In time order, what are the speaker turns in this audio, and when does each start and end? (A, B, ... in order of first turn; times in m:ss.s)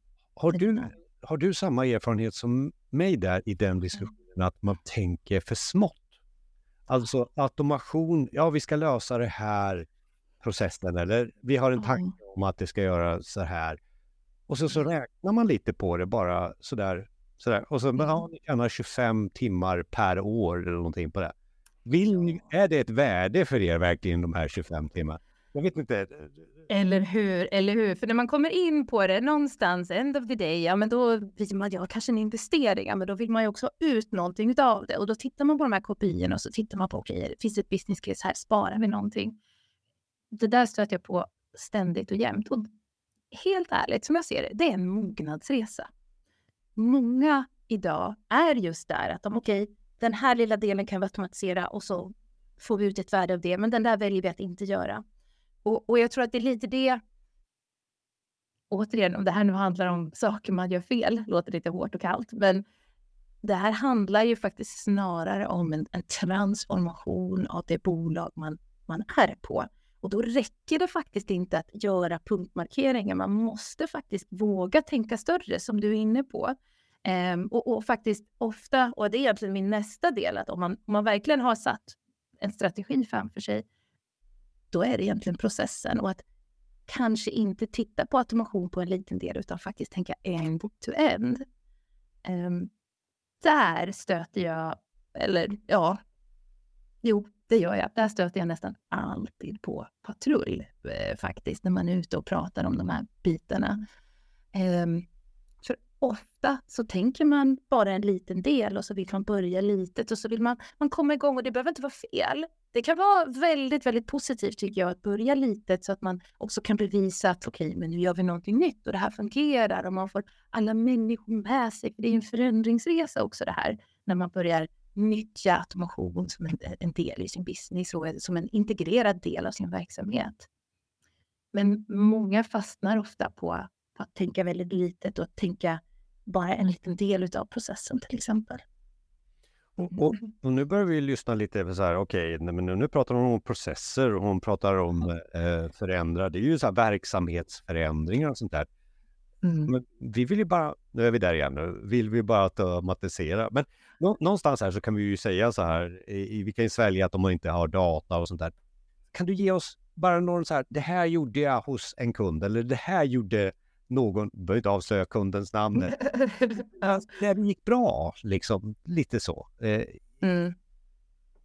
0:00.4-0:06.0 A
0:00.5-0:00.9 B
0:06.9-0:09.9 A
0:10.4-0:13.8 A
0:11.8-0:12.1 B
0:14.5-0:21.3 A
0:21.8-0:26.3 A
0:26.7-0:39.4 B
0:40.3-0:42.6 B
0:43.3-0:45.9 B
0:46.8-0:55.0 B
0:55.6-0:57.0 B
0:58.7-1:02.6 B
1:03.4-1:16.5 B
1:17.0-1:23.6 B
1:24.7-1:26.2 B
1:26.9-1:31.4 B
1:32.2-1:32.7 B
1:33.4-1:36.0 B
1:37.0-1:43.8 B
1:44.5-1:45.1 B
1:45.6-2:10.5 B
2:11.5-2:18.6 B
2:19.8-2:28.7 A
2:29.4-2:29.7 B
2:29.7-2:38.5 A
2:39.1-2:46.0 A
2:46.0-2:46.7 B
2:46.8-2:50.0 A
2:50.2-2:50.6 B